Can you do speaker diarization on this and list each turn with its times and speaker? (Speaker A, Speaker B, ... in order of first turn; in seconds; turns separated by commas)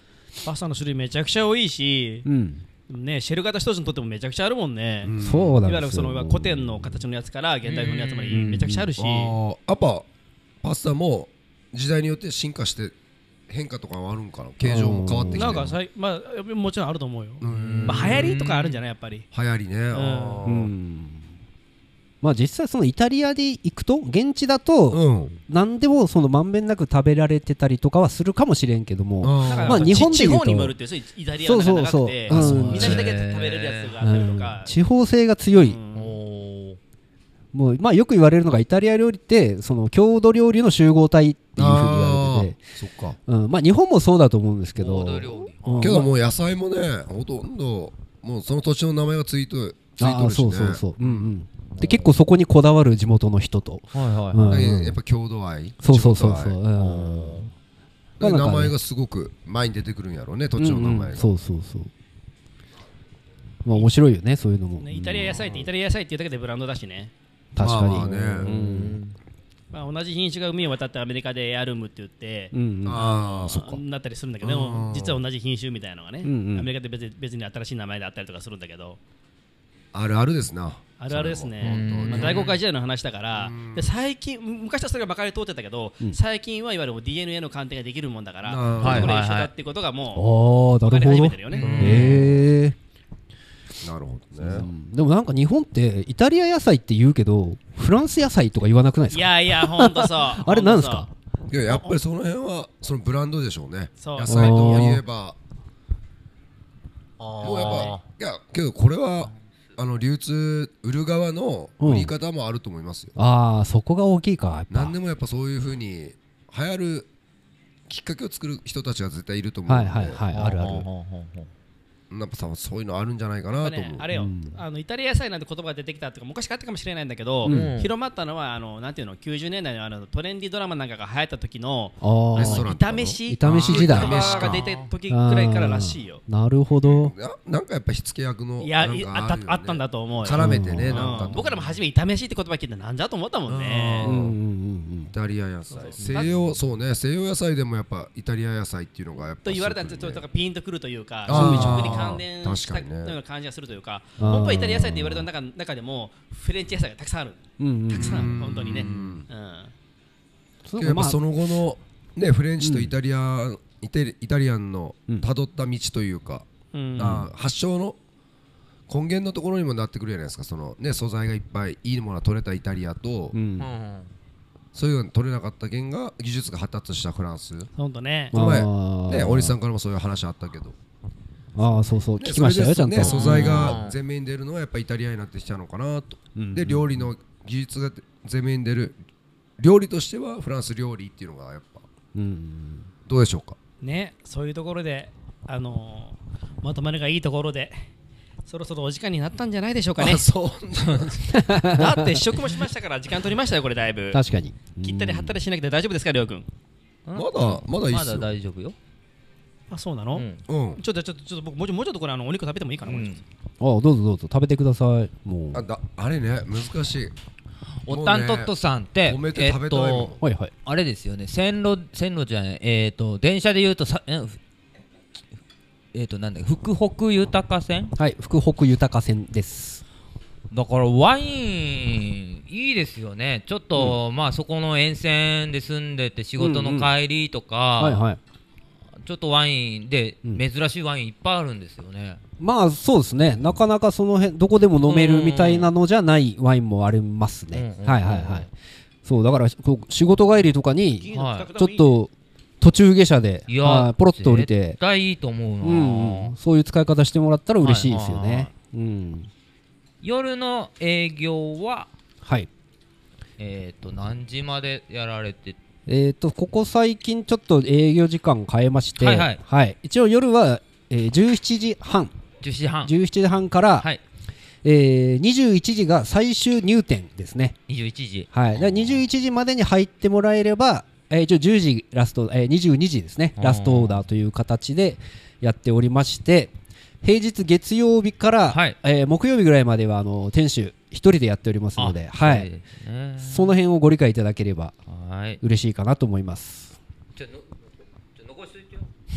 Speaker A: 0.4-2.3, Speaker B: 2.2-2.6, Speaker A: 2.9-9.3, Speaker C: 5.0-5.6, Speaker B: 5.2-7.0, Speaker D: 7.7-8.5, Speaker B: 8.3-8.9, Speaker C: 9.0-10.1, Speaker C: 10.6-12.9, Speaker C: 13.5-15.8, Speaker B: 14.6-15.6, Speaker A: 15.3-19.3, Speaker C: 17.4-18.3, Speaker D: 17.5-18.8, Speaker C: 19.3-20.7, Speaker A: 19.9-20.4, Speaker B: 20.4-21.3, Speaker B: 22.2-30.8, Speaker C: 24.9-25.4, Speaker C: 29.2-30.0, Speaker A: 29.4-34.7, Speaker B: 31.4-33.1, Speaker D: 32.3-33.9, Speaker C: 32.5-33.0, Speaker B: 34.0-35.8, Speaker A: 35.5-36.2, Speaker D: 35.9-36.8, Speaker B: 37.5-42.6, Speaker C: 41.6-43.2, Speaker B: 43.3-46.1, Speaker D: 44.8-46.1, Speaker C: 45.8-51.3, Speaker B: 50.0-55.0, Speaker D: 51.7-52.1, Speaker D: 53.9-54.7, Speaker C: 54.5-56.6, Speaker B: 55.8-57.5, Speaker D: 56.8-57.5, Speaker B: 58.2-58.8, Speaker C: 58.2-61.3, Speaker B: 60.6-61.9, Speaker B: 63.6-65.5, Speaker A: 64.8-67.1, Speaker B: 67.5-69.0, Speaker C: 67.6-68.5, Speaker D: 68.2-69.2, Speaker A: 69.7-79.0, Speaker B: 72.5-73.1, Speaker C: 72.8-73.8, Speaker C: 74.4-75.2, Speaker B: 76.2-76.7, Speaker C: 79.9-82.5, Speaker A: 81.0-90.3, Speaker D: 81.6-82.6, Speaker C: 83.3-83.9, Speaker C: 88.4-89.2, Speaker D: 88.8-89.5, Speaker B: 90.2-92.8, Speaker A: 90.8-91.7, Speaker D: 91.5-92.3, Speaker C: 91.6-92.5, Speaker C: 93.8-94.7, Speaker B: 94.4-101.1, Speaker A: 99.1-101.1, Speaker C: 101.5-105.4, Speaker A: 101.7-102.0, Speaker A: 104.0-104.8, Speaker B: 104.3-105.0, Speaker D: 107.2-108.0, Speaker C: 107.4-113.2, Speaker A: 107.6-107.9, Speaker B: 111.8-112.1, Speaker B: 113.2-115.0, Speaker C: 114.7-117.1, Speaker C: 117.9-120.2, Speaker B: 119.7-120.9, Speaker D: 120.3-121.5, Speaker C: 122.1-124.1, Speaker A: 123.6-136.2, Speaker B: 124.1-124.6, Speaker B: 127.5-127.8, Speaker D: 127.5-127.9, Speaker B: 132.0-132.7, Speaker C: 132.3-134.7, Speaker B: 133.3-134.2, Speaker D: 133.9-134.9, Speaker B: 135.1-137.1, Speaker C: 136.9-141.6, Speaker A: 138.6-144.2, Speaker B: 140.3-141.3, Speaker C: 143.5-144.4, Speaker B: 144.0-145.1, Speaker C: 145.1-150.2, Speaker A: 145.7-146.3, Speaker B: 146.1-146.4, Speaker A: 149.4-159.7, Speaker C: 151.3-153.2, Speaker B: 151.3-152.1, Speaker B: 154.2-155.3, Speaker B: 157.6-158.4, Speaker C: 157.9-159.3, Speaker B: 160.7-161.2, Speaker C: 160.8-166.5, Speaker B: 162.6-162.9, Speaker A: 166.7-167.3, Speaker C: 167.0-168.0, Speaker C: 168.9-173.4, Speaker B: 173.3-173.7, Speaker D: 173.6-174.1, Speaker C: 174.7-177.7, Speaker A: 177.8-178.4, Speaker B: 178.3-179.6, Speaker C: 178.3-180.8, Speaker B: 181.6-183.8, Speaker C: 182.2-189.0, Speaker D: 183.0-184.0, Speaker B: 186.4-187.1, Speaker C: 189.6-191.8, Speaker B: 192.1-192.9, Speaker C: 193.1-193.6, Speaker A: 193.8-197.9, Speaker A: 198.5-200.2, Speaker C: 200.0-201.4, Speaker B: 201.3-202.2, Speaker A: 201.7-204.2, Speaker B: 204.1-205.4, Speaker A: 204.8-206.5, Speaker D: 207.1-208.8, Speaker C: 207.2-208.3, Speaker A: 209.7-210.2, Speaker D: 210.1-210.4, Speaker C: 210.5-210.8, Speaker A: 210.8-213.2, Speaker D: 212.9-213.2, Speaker B: 213.6-215.6, Speaker C: 215.5-217.1, Speaker D: 217.8-224.4, Speaker C: 217.9-218.5, Speaker C: 219.1-220.2, Speaker B: 220.2-220.5, Speaker D: 225.9-227.9, Speaker B: 228.0-229.8, Speaker D: 230.5-238.0, Speaker B: 236.4-236.9, Speaker B: 237.8-238.2, Speaker D: 239.0-242.2, Speaker B: 242.4-248.5, Speaker D: 244.9-245.7, Speaker D: 247.5-248.5, Speaker B: 249.1-254.8, Speaker A: 251.0-252.0, Speaker D: 251.1-251.5, Speaker D: 253.5-256.4, Speaker B: 255.6-259.3, Speaker D: 257.6-258.5, Speaker D: 260.0-261.9, Speaker B: 262.2-262.5, Speaker D: 263.4-265.6, Speaker B: 265.9-272.1, Speaker D: 269.0-269.4, Speaker D: 272.4-272.9, Speaker B: 272.8-273.9, Speaker B: 274.6-277.6, Speaker D: 277.7-278.3, Speaker B: 278.3-292.5, Speaker C: 278.6-279.0, Speaker D: 283.4-284.0, Speaker D: 288.5-288.8, Speaker D: 291.8-293.6, Speaker B: 293.2-294.7, Speaker D: 294.9-295.4, Speaker B: 295.4-296.8, Speaker D: 297.2-297.5, Speaker D: 298.2-298.9